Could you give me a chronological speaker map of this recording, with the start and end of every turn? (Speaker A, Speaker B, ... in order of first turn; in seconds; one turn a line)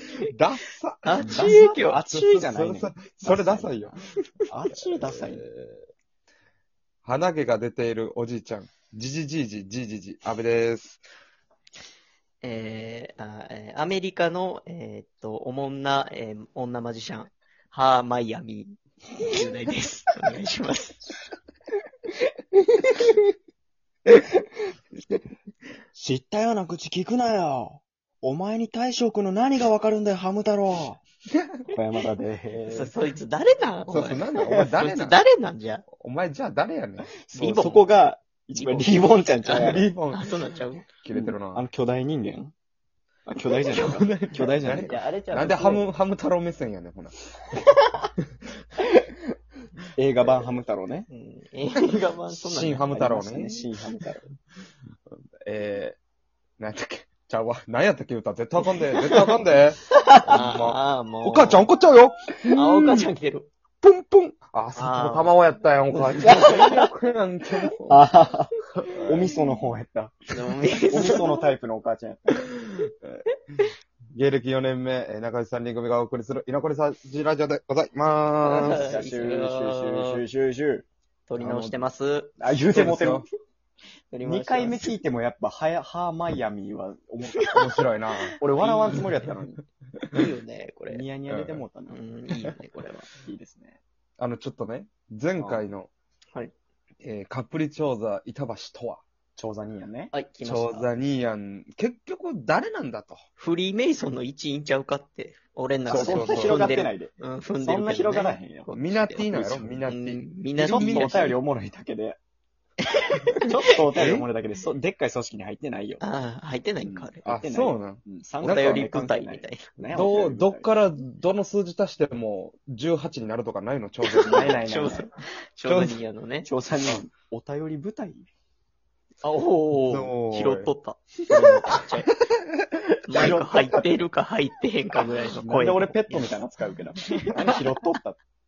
Speaker A: 0.3-1.5
Speaker B: 1.0-2.0
Speaker C: 1.2-5.4
Speaker A: 2.1-4.0
Speaker A: 4.7-5.9
Speaker A: 7.0-11.0
Speaker B: 12.4-21.0
Speaker C: 25.9-31.0
Speaker A: 31.4-31.6
Speaker C: 31.7-32.9
Speaker B: 32.7-35.9
Speaker A: 33.9-35.2
Speaker C: 34.4-34.7
Speaker A: 35.9-37.2
Speaker C: 37.1-39.9
Speaker B: 37.4-37.9
Speaker B: 38.6-40.9
Speaker A: 39.5-41.7
Speaker C: 41.1-42.5
Speaker C: 43.3-46.0
Speaker B: 43.7-44.3
Speaker A: 43.7-47.2
Speaker C: 50.0-51.1
Speaker B: 51.1-52.9
Speaker A: 52.3-53.7
Speaker C: 52.9-54.3
Speaker A: 55.1-56.0
Speaker A: 56.6-63.1
Speaker B: 58.9-59.3
Speaker B: 60.2-61.7
Speaker B: 62.5-63.5
Speaker A: 63.8-68.1
Speaker B: 64.8-65.3
Speaker B: 66.2-66.9
Speaker C: 66.2-66.7
Speaker C: 67.9-70.3
Speaker A: 68.9-69.4
Speaker B: 70.3-71.4
Speaker C: 70.9-72.5
Speaker A: 71.0-71.2
Speaker A: 74.1-78.9
Speaker B: 78.4-80.2
Speaker C: 78.6-80.9
Speaker B: 81.3-82.4
Speaker A: 81.4-81.8
Speaker C: 82.4-83.3
Speaker A: 82.7-83.3
Speaker B: 84.1-84.9
Speaker C: 84.2-87.6
Speaker A: 87.5-88.4
Speaker C: 88.4-89.6
Speaker B: 88.4-89.3
Speaker B: 90.1-91.0
Speaker C: 90.9-92.0
Speaker A: 91.3-91.7
Speaker B: 91.9-92.9
Speaker C: 92.8-93.8
Speaker A: 94.2-95.9
Speaker C: 95.4-95.7
Speaker A: 97.0-99.0
Speaker C: 99.4-100.1
Speaker B: 100.1-100.9
Speaker A: 100.4-103.2
Speaker B: 103.4-111.4
Speaker C: 105.9-108.7
Speaker A: 105.9-106.7
Speaker A: 108.7-111.3
Speaker C: 109.3-109.8
Speaker C: 110.6-112.2
Speaker B: 113.0-113.6
Speaker C: 113.5-116.0
Speaker A: 113.9-114.3
Speaker B: 116.0-117.2
Speaker C: 116.8-120.7
Speaker A: 117.2-118.9
Speaker B: 118.4-119.7
Speaker A: 119.9-124.6
Speaker B: 124.2-126.5
Speaker C: 124.2-125.1
Speaker A: 125.7-126.0
Speaker C: 126.5-128.3
Speaker C: 129.2-130.1
Speaker A: 129.8-130.7
Speaker B: 130.3-132.1
Speaker C: 131.3-131.6
Speaker B: 133.1-136.4
Speaker C: 133.1-133.8
Speaker C: 135.1-138.2
Speaker B: 137.0-137.5